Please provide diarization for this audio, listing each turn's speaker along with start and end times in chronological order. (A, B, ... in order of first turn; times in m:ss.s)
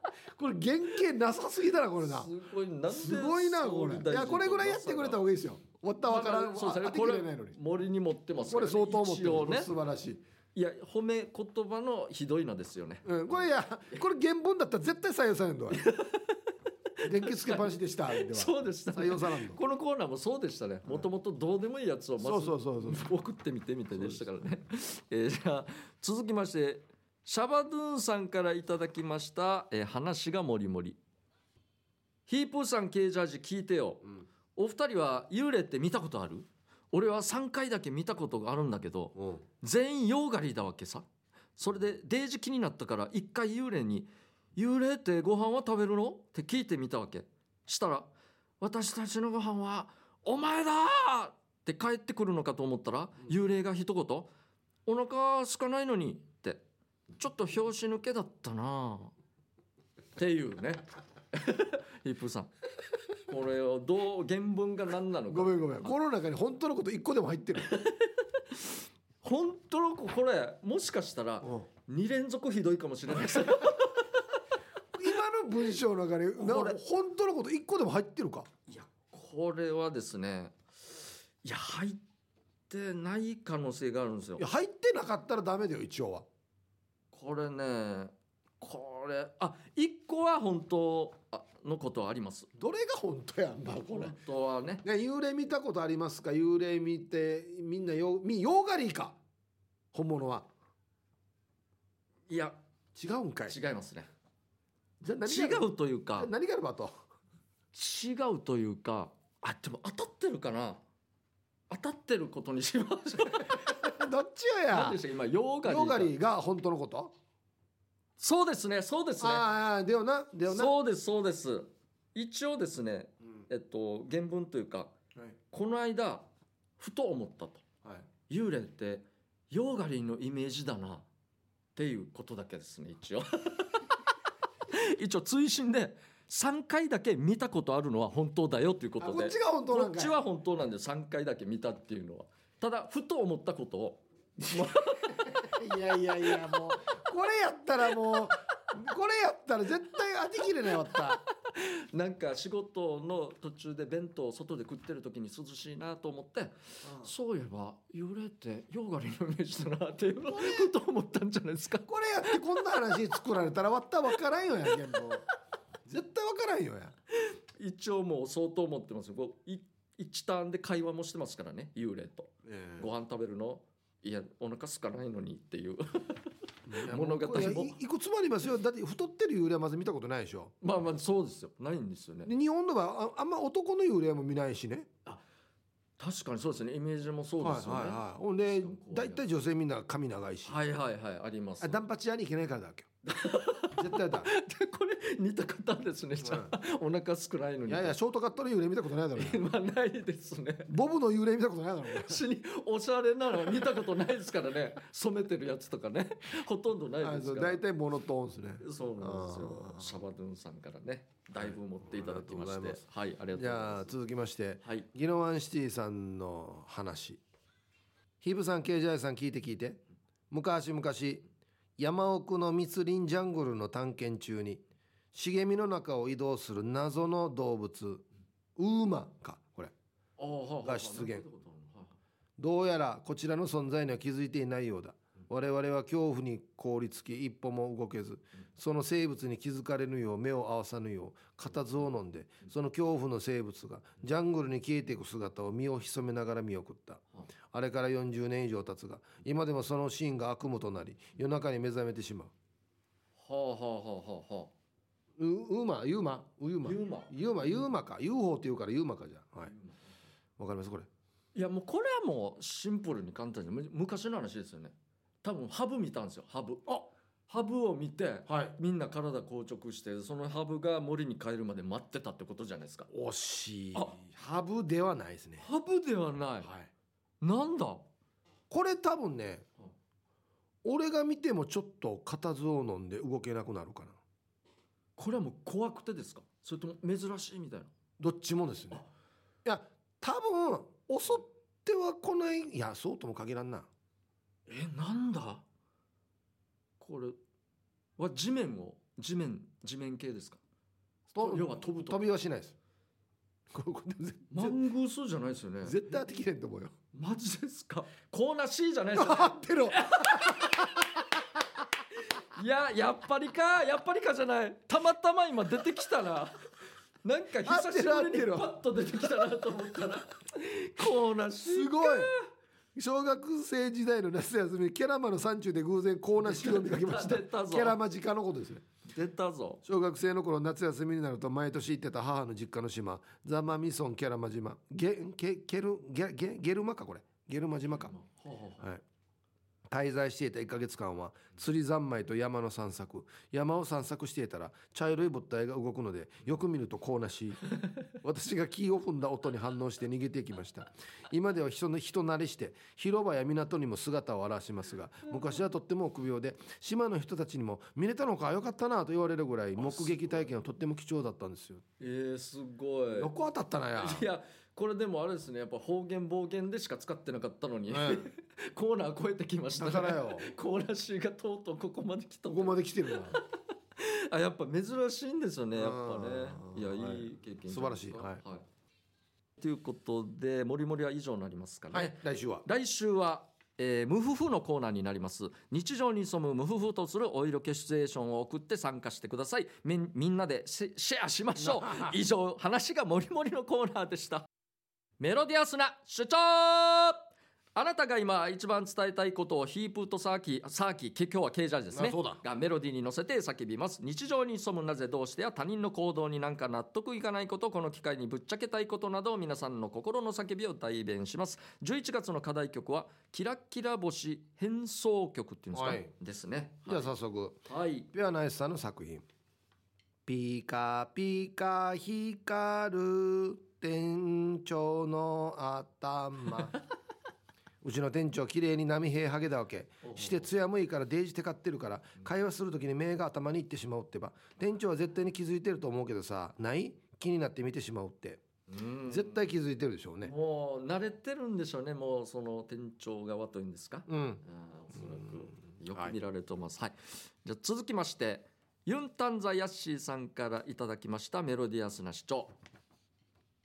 0:00.3-0:02.3 A
0:02.0-0:05.2 B
0:02.9-0:07.6 A
0:06.0-0:09.7 B
0:08.5-0:10.2 A
0:10.5-0:14.0 B
0:13.0-0:15.8 A
0:15.7-0:31.0 B
0:17.0-0:19.6 A
0:22.2-0:23.1 A
0:24.0-0:24.2 A
0:32.3-0:54.3 B
0:39.2-0:39.4 A
0:54.8-0:56.6 B
0:57.2-0:59.1 B
1:00.2-1:02.5 B
1:03.2-1:05.9 B
1:05.3-1:07.7 A
1:07.6-1:14.4 B
1:11.4-1:11.7 A
1:14.9-1:18.5 A
1:16.4-1:16.8 B
1:18.7-1:20.6 B
1:21.4-1:22.0 B
1:22.7-1:24.4 B
1:24.4-1:26.2 A
1:27.1-1:32.5 B
1:32.6-1:34.2 A
1:33.9-1:34.8 B
1:34.8-1:39.2 A
1:39.9-1:40.5 A
1:42.3-1:42.6 B
1:42.9-1:43.6 A
1:43.5-1:44.1 B
1:45.0-1:46.9 A
1:45.2-1:46.3 B
1:47.7-1:50.8 B
1:51.7-1:53.9 B
1:53.7-1:55.0 A
1:54.7-1:56.1 B
1:55.6-1:57.1 A
1:58.2-1:59.4 B
1:59.2-2:00.7 A
2:00.5-2:04.9 B
2:05.5-2:06.3 B
2:06.8-2:07.6 B
2:08.3-2:11.1 B
2:11.8-2:13.9 B
2:14.7-2:25.4 B
2:19.0-2:20.2 A
2:24.6-2:31.2 A
2:30.9-2:42.7 B
2:36.8-2:37.1 A
2:40.3-2:40.7 A
2:41.9-2:45.2 A
2:45.8-2:46.9 A
2:47.2-2:57.8 B
2:52.4-2:52.9 A
2:56.7-3:00.5 A
3:00.6-3:02.3 B
3:02.2-3:04.9 A
3:06.0-3:09.2 B
3:07.4-3:10.6 A
3:10.4-3:11.8 B
3:11.6-3:12.9 A
3:13.0-3:18.0 B
3:13.8-3:14.3 A
3:16.2-3:16.5 A
3:17.7-3:19.4 A
3:19.1-3:20.7 B
3:20.7-3:22.2 A
3:21.9-3:27.6 B
3:27.0-3:30.0 A
3:28.6-3:33.9 B
3:31.4-3:32.8 A
3:33.3-3:37.2 A
3:38.2-3:41.2 A
3:41.8-3:44.6 A
3:45.1-3:48.0 A
3:48.6-3:49.7 A
3:50.2-3:52.0 B
3:50.6-3:51.2 A
3:52.4-4:12.3 A
4:13.2-4:14.5 B
4:15.2-4:19.5 A
4:16.6-4:17.1 B
4:19.5-4:19.8 B
4:20.4-4:20.9 A
4:21.3-4:26.7 B
4:27.3-4:32.9 B
4:28.3-4:28.5 A
4:32.9-4:35.4 A
4:35.4-4:36.5 B
4:36.4-4:36.7 A
4:37.2-4:37.8 B
4:38.5-4:39.4 A
4:40.6-4:44.0 A
4:45.0-4:47.7 B
4:48.0-4:48.8 A
4:49.4-4:53.7 A
4:54.5-4:55.4 B
4:56.8-4:57.2 B
4:58.0-5:00.4 B
5:01.1-5:02.5 A
5:01.2-5:02.0 B
5:03.5-5:04.6 A
5:04.3-5:05.8 B
5:05.6-5:06.7 A
5:06.9-5:11.0 B
5:08.9-5:11.0 A
5:12.0-5:16.4 B
5:17.0-5:22.3 B
5:17.4-5:18.5 A
5:21.4-5:22.1 A
5:22.7-5:28.6 A
5:26.2-5:27.8 B
5:28.8-5:29.6 B
5:29.6-5:37.9 A
5:37.7-5:38.7 B
5:39.7-6:01.6 A
5:59.6-6:00.3 B
6:01.8-6:03.1 B
6:03.0-6:04.0 A
6:03.7-6:18.4 B
6:07.7-6:08.1 A
6:09.5-6:10.3 A
6:12.3-6:13.2 A
6:15.6-6:18.2 A
6:19.4-6:34.3 B
6:21.7-6:22.4 A
6:31.4-6:32.0 A
6:35.0-6:56.9 B
6:41.7-6:42.2 A
6:55.5-6:55.9 A
6:56.6-6:59.0 A
6:57.4-6:57.9 B
7:00.0-7:06.6 A
7:07.6-7:18.2 A
7:09.8-7:10.2 B
7:18.5-7:19.2 B
7:18.8-7:20.1 A
7:20.0-7:32.3 B
7:23.9-7:24.2 A
7:24.8-7:25.2 A